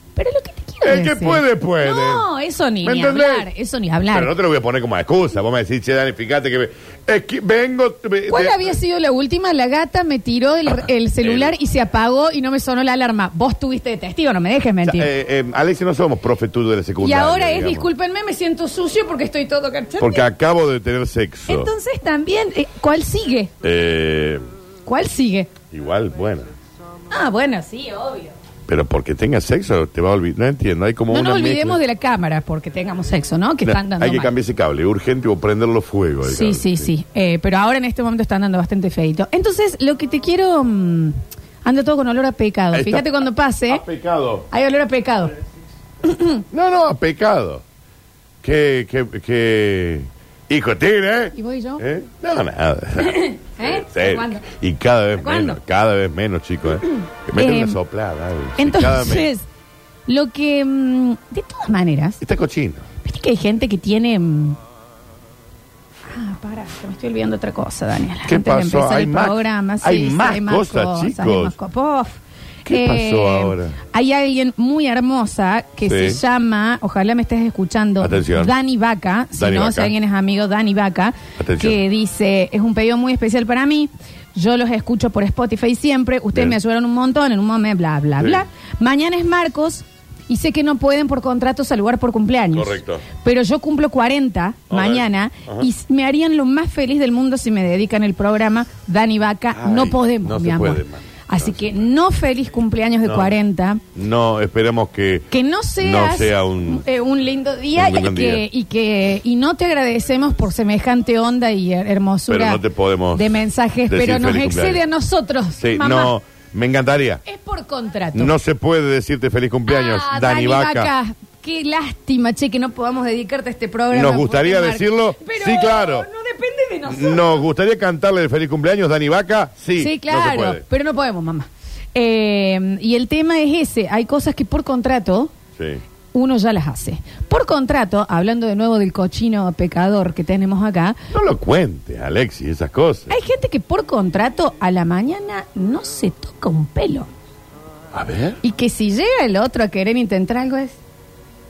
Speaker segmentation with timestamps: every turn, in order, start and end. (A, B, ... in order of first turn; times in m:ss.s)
0:00.2-0:04.3 A
0:00.8-0:02.2 B
0:02.8-0:03.5 B
0:04.1-0:08.7 B
0:08.2-0:15.1 A
0:11.2-0:11.5 B
0:14.8-0:17.9 B
0:17.0-0:20.3 A
0:20.0-0:21.7 B
0:21.5-0:23.5 A
0:23.6-0:24.4 B
0:24.9-0:25.5 A
0:25.7-0:26.5 B
0:27.1-0:28.3 A
0:28.7-0:31.8 B
0:31.1-0:34.3 A
0:33.6-0:36.9 B
0:36.2-0:43.8 A
0:42.7-0:43.1 B
0:43.7-0:44.5 B
0:44.5-0:45.3 A
0:46.0-0:46.4 A
0:46.5-0:47.6 B
0:48.4-0:59.3 B
0:51.3-0:51.8 A
0:53.0-0:54.4 A
0:55.2-0:55.6 A
0:57.3-0:57.8 A
0:58.6-0:59.4 A
1:00.1-1:02.2 A
1:02.2-1:02.9 B
1:03.0-1:04.6 A
1:06.1-1:43.8 A
1:08.2-1:11.6 B
1:12.6-1:13.8 B
1:15.9-1:16.2 B
1:18.0-1:18.5 B
1:19.4-1:19.9 B
1:21.4-1:21.8 B
1:28.2-1:28.4 B
1:32.5-1:33.0 B
1:34.7-1:35.7 B
1:39.5-1:41.8 B
1:43.0-1:43.3 B
1:43.9-1:46.8 B
1:45.3-1:52.6 A
1:47.8-1:48.4 B
1:52.3-1:54.8 B
1:53.1-1:56.1 A
1:55.6-1:57.2 B
1:57.2-1:58.3 A
1:58.1-2:00.9 B
1:59.7-2:07.4 A
2:03.9-2:06.1 B
2:06.9-2:10.6 B
2:09.8-2:15.3 A
2:15.6-2:15.8 B
2:16.1-2:21.0 A
2:21.1-2:23.2 B
2:23.1-2:27.1 A
2:27.9-2:28.4 B
2:28.4-2:30.8 A